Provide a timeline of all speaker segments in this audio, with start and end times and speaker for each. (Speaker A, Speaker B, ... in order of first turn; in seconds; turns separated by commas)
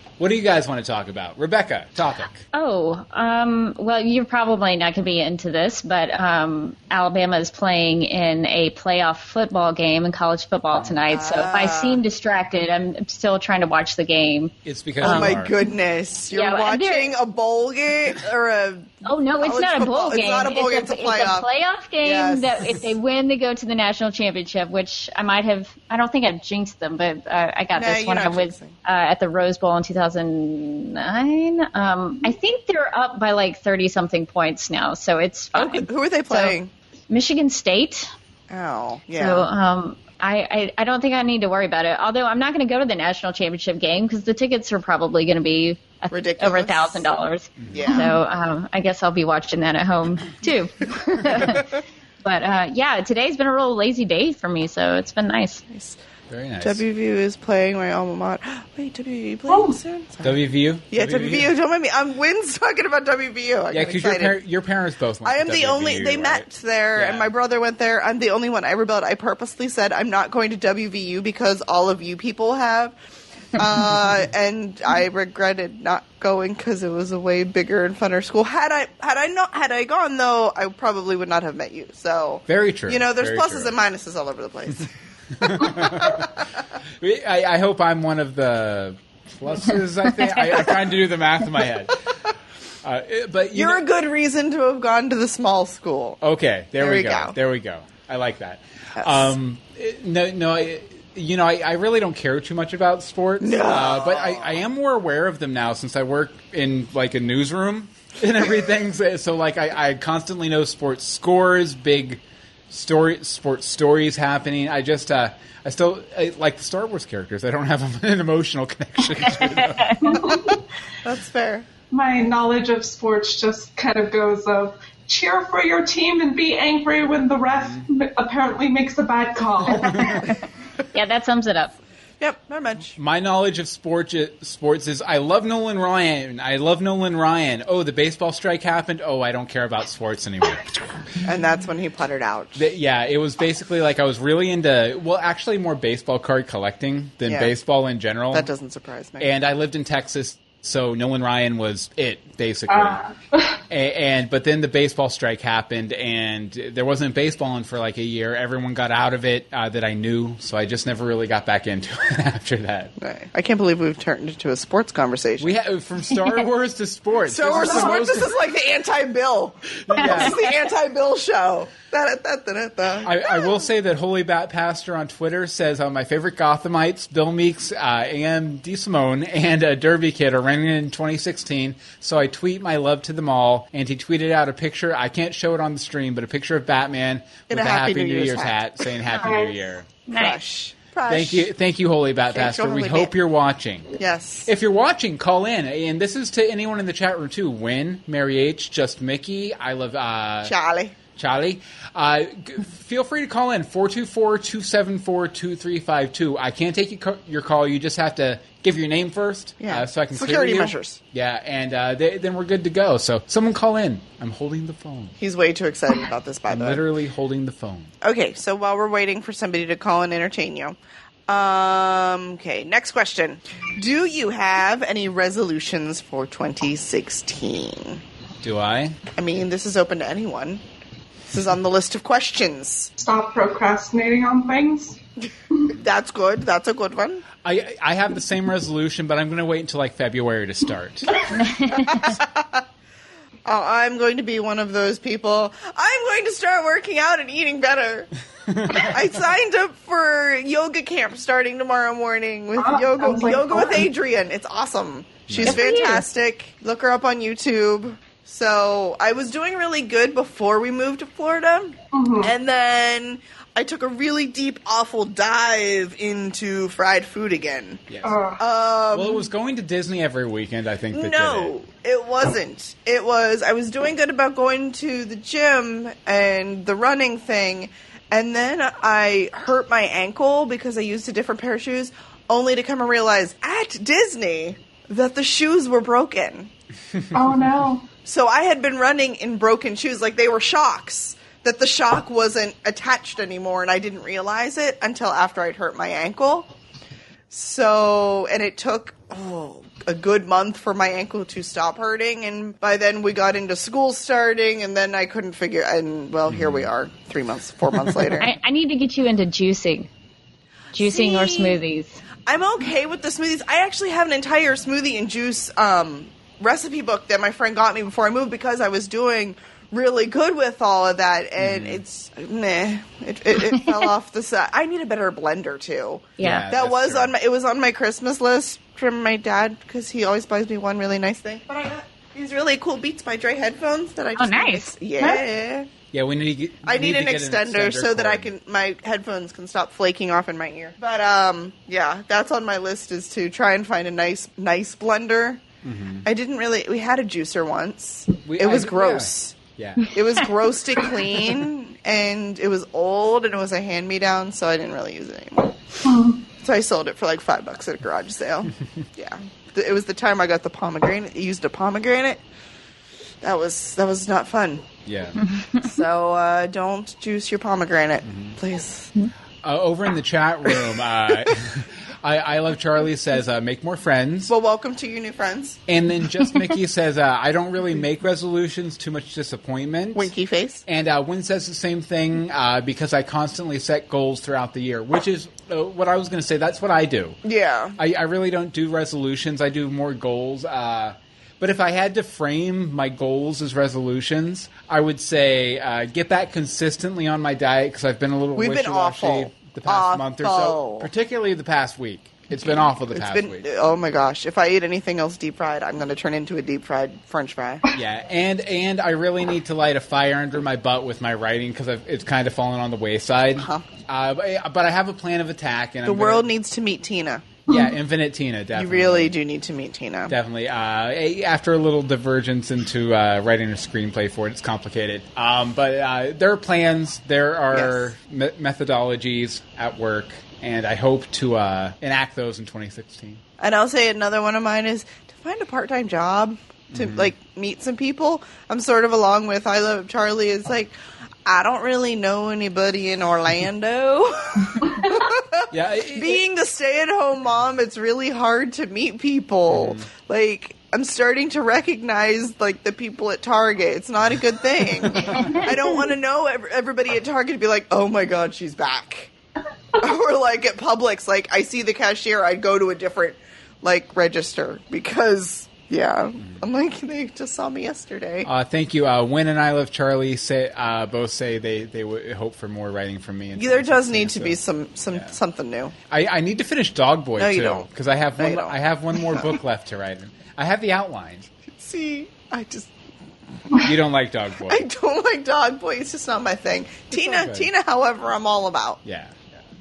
Speaker A: 0.2-2.4, Speaker B: 2.5-15.4, Speaker C: 11.1-12.0, Speaker A: 14.7-15.5, Speaker C: 15.0-21.5, Speaker B: 16.3-17.1, Speaker B: 19.0-36.6, Speaker C: 22.0-22.8, Speaker C: 27.8-28.7, Speaker C: 35.6-36.7, Speaker B: 37.1-38.1, Speaker C: 38.5-39.5, Speaker B: 39.2-55.6, Speaker C: 46.1-47.1, Speaker A: 47.6-47.8, Speaker C: 47.7-48.2, Speaker C: 55.7-56.0, Speaker A: 56.3-56.8, Speaker C: 56.6-60.4, Speaker D: 59.5-59.8, Speaker A: 60.2-61.5, Speaker C: 60.9-64.4, Speaker A: 63.7-67.3, Speaker C: 65.2-73.0, Speaker C: 73.5-84.9, Speaker A: 82.5-83.8, Speaker A: 85.4-86.3, Speaker C: 85.4-86.5, Speaker A: 87.0-92.0, Speaker A: 92.8-93.8, Speaker C: 93.5-96.2, Speaker A: 96.2-120.1, Speaker C: 96.8-97.3, Speaker C: 99.0-99.3, Speaker C: 103.4-104.5, Speaker D: 120.0-120.6, Speaker C: 121.0-121.7, Speaker D: 121.9-130.3, Speaker A: 127.5-127.9, Speaker A: 129.8-130.2, Speaker B: 130.9-131.8, Speaker C: 132.2-132.9, Speaker A: 133.0-140.7, Speaker C: 141.2-142.6, Speaker A: 142.6-148.5, Speaker C: 147.3-147.5, Speaker C: 148.3-149.3, Speaker A: 149.2-153.0, Speaker D: 152.7-153.6, Speaker A: 153.7-162.9, Speaker C: 163.0-165.5, Speaker A: 165.4-168.3, Speaker C: 167.3-173.5, Speaker D: 167.7-168.0, Speaker A: 169.8-170.4, Speaker A: 173.0-189.9, Speaker C: 187.5-188.9, Speaker D: 189.2-189.7, Speaker B: 190.1-190.4, Speaker C: 190.1-191.5, Speaker A: 191.1-193.9, Speaker C: 192.3-193.1, Speaker C: 194.0-194.5, Speaker A: 194.5-200.5, Speaker C: 200.4-200.9, Speaker A: 201.2-215.2, Speaker C: 209.6-211.0, Speaker C: 215.2-216.8, Speaker A: 216.5-217.9, Speaker C: 218.0-220.8, Speaker C: 221.3-228.0, Speaker A: 228.4-229.0, Speaker C: 229.2-230.6, Speaker C: 231.3-232.9, Speaker D: 233.0-235.0, Speaker C: 235.8-237.2, Speaker A: 237.4-241.3, Speaker B: 241.4-242.0, Speaker C: 241.7-242.6, Speaker C: 243.5-248.1, Speaker A: 248.5-248.9, Speaker C: 248.7-267.9, Speaker D: 252.6-253.9, Speaker A: 255.3-255.6, Speaker B: 255.4-256.0, Speaker D: 261.9-262.3, Speaker A: 267.9-268.2, Speaker D: 268.0-268.4, Speaker C: 268.4-269.3, Speaker A: 268.9-271.5, Speaker C: 270.9-286.5, Speaker D: 287.1-287.9, Speaker C: 288.1-296.5, Speaker C: 297.3-308.3, Speaker A: 306.3-306.7, Speaker A: 307.9-308.1, Speaker B: 308.2-309.9, Speaker B: 310.7-312.0, Speaker C: 310.8-311.6, Speaker C: 312.3-335.7, Speaker A: 321.4-321.8, Speaker B: 326.2-326.5, Speaker A: 326.2-327.1, Speaker B: 334.2-335.2, Speaker A: 335.9-338.3, Speaker C: 336.7-345.4, Speaker A: 345.6-346.1, Speaker C: 346.1-349.4, Speaker A: 348.2-349.9, Speaker C: 349.9-355.6, Speaker D: 355.9-356.2, Speaker C: 356.4-362.2, Speaker C: 363.2-364.6, Speaker A: 364.9-365.3, Speaker C: 365.6-368.9, Speaker A: 368.1-368.4, Speaker A: 369.4-374.3, Speaker C: 374.3-375.6, Speaker A: 375.7-380.1, Speaker C: 379.9-380.6, Speaker A: 380.7-387.2, Speaker C: 387.2-387.8, Speaker A: 387.8-403.5, Speaker C: 398.4-400.9, Speaker C: 402.3-407.6, Speaker A: 407.7-416.3, Speaker C: 413.4-413.7, Speaker C: 415.9-417.3, Speaker A: 417.5-419.1, Speaker C: 418.6-420.1, Speaker A: 420.1-433.2, Speaker C: 427.5-427.8, Speaker C: 433.4-440.7, Speaker A: 436.7-437.1, Speaker C: 441.3-459.1, Speaker A: 445.5-446.2, Speaker A: 449.5-449.9, Speaker A: 454.8-455.4, Speaker C: 459.8-468.3, Speaker A: 468.2-474.4, Speaker C: 473.4-475.7, Speaker A: 475.9-481.3, Speaker C: 477.2-477.7, Speaker C: 478.2-479.4, Speaker C: 481.5-482.7, Speaker A: 483.6-484.6, Speaker C: 484.5-488.8, Speaker A: 486.9-487.5, Speaker A: 488.9-489.4